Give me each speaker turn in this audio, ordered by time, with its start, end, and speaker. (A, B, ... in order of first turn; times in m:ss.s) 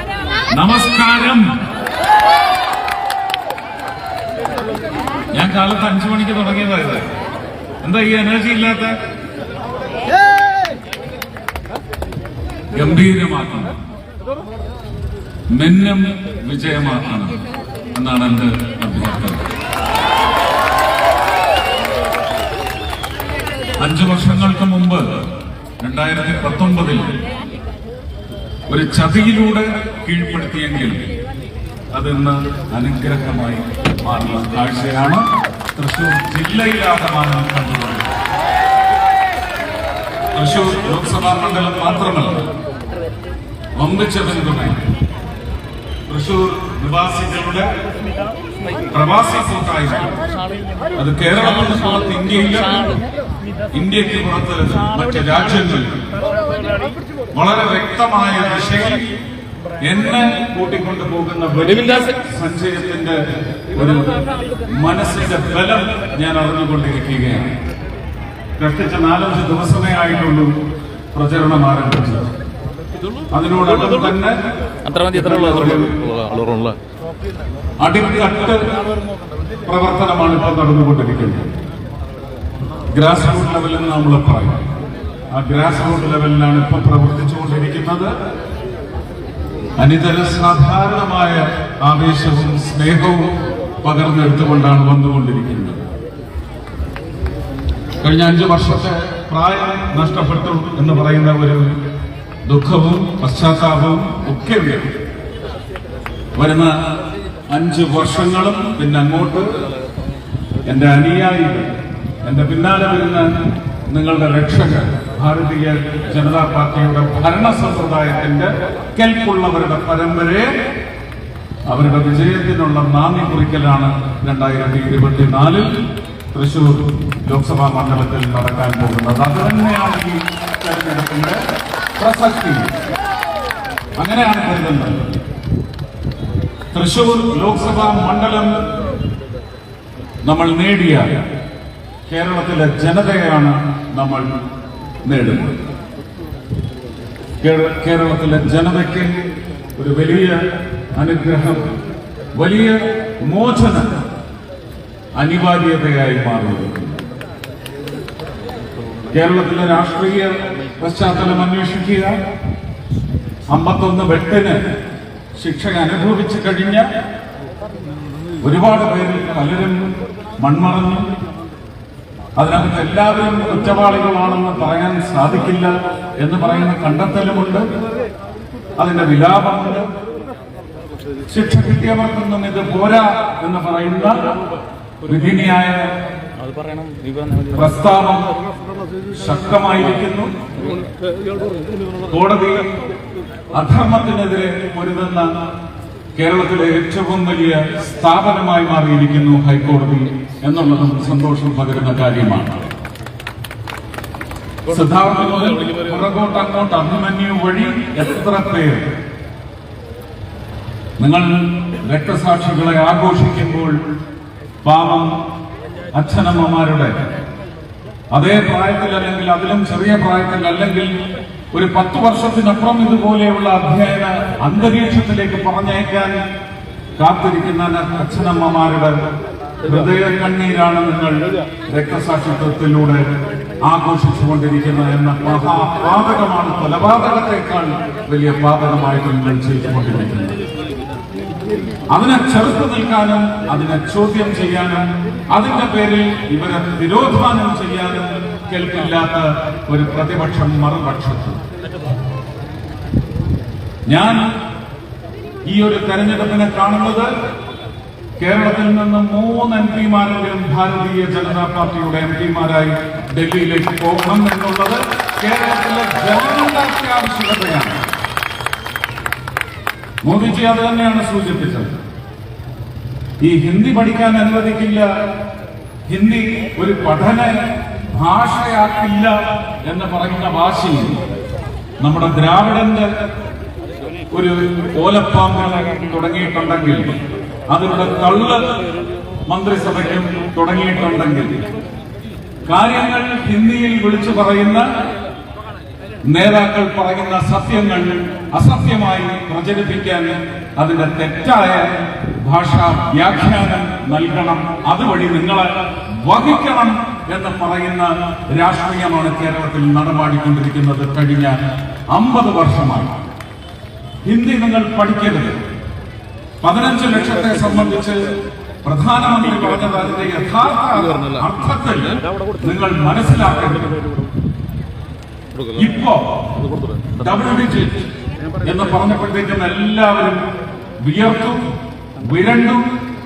0:00.5-0:01.5 A
0:05.3-0:07.1 A
0:07.8-0:09.0 A
0:12.7-0:13.7 A
0:15.5-0:19.4 A
0:23.8-0:25.1 A
0:25.8-0:27.2 A
0:28.7-0:31.1 A
0:31.9-0:35.2 A
0:35.7-0:38.1 A
0:40.3-0:42.5 A
0:43.8-0:44.8 A
0:46.1-0:47.7 A
0:48.9-0:50.2 A
0:51.0-0:52.9 A
0:53.7-0:56.0 A
0:57.3-0:59.1 A
0:59.8-1:04.1 A
1:04.7-1:07.5 A
1:08.6-1:10.5 A
1:11.1-1:12.3 A
1:13.3-1:14.4 A
1:14.9-1:16.0 A
1:17.8-1:18.6 A
1:19.6-1:21.5 A
1:22.9-1:24.7 A
1:25.3-1:28.1 A
1:29.8-1:35.8 A
1:38.0-1:41.7 A
1:42.4-1:44.9 A
1:46.4-1:46.8 A
1:47.5-1:49.5 A
1:50.6-1:51.7 A
1:52.2-1:53.3 A
1:53.9-2:00.5 A
2:01.7-2:05.7 A
2:06.3-2:11.4 A
2:12.0-2:12.7 A
2:14.0-2:15.2 A
2:16.7-2:18.5 A
2:20.2-2:21.2 A
2:22.1-2:24.3 A
2:25.0-2:25.6 A
2:27.4-2:29.1 A
2:29.7-2:30.4 A
2:30.9-2:31.7 A
2:32.3-2:33.9 A
2:35.2-2:37.0 A
2:39.1-2:42.1 A
2:43.5-2:44.6 A
2:45.3-2:46.9 A
2:48.4-2:51.1 A
2:52.4-2:57.7 A
2:58.8-2:59.9 A
3:01.3-3:04.2 A
3:05.0-3:05.9 A
3:07.5-3:08.3 A
3:09.1-3:10.3 A
3:12.1-3:12.6 A
3:13.5-3:15.3 A
3:16.2-3:22.6 A
3:24.7-3:28.9 A
3:31.0-3:33.8 A
3:34.6-3:35.1 A
3:35.9-3:37.0 A
3:38.1-3:40.9 A
3:41.5-3:46.2 A
3:47.0-3:49.0 A
3:49.6-3:53.1 A
3:53.6-4:00.4 A
4:01.9-4:11.4 A
4:13.9-4:14.2 A
4:15.5-4:17.1 A
4:18.2-4:27.8 A
4:30.0-4:31.8 A
4:33.2-4:34.9 A
4:35.9-4:37.4 A
4:37.9-4:41.0 A
4:41.8-4:42.9 A
4:44.1-4:46.9 A
4:47.5-4:48.4 A
4:49.3-4:51.4 A
4:52.5-4:54.7 A
4:56.1-5:11.4 A
5:11.9-5:13.0 A
5:14.0-5:15.4 A
5:16.4-5:18.1 A
5:18.6-5:23.7 A
5:25.5-5:26.2 A
5:26.9-5:27.9 A
5:28.4-5:30.2 A
5:30.8-5:31.4 A
5:32.0-5:32.7 A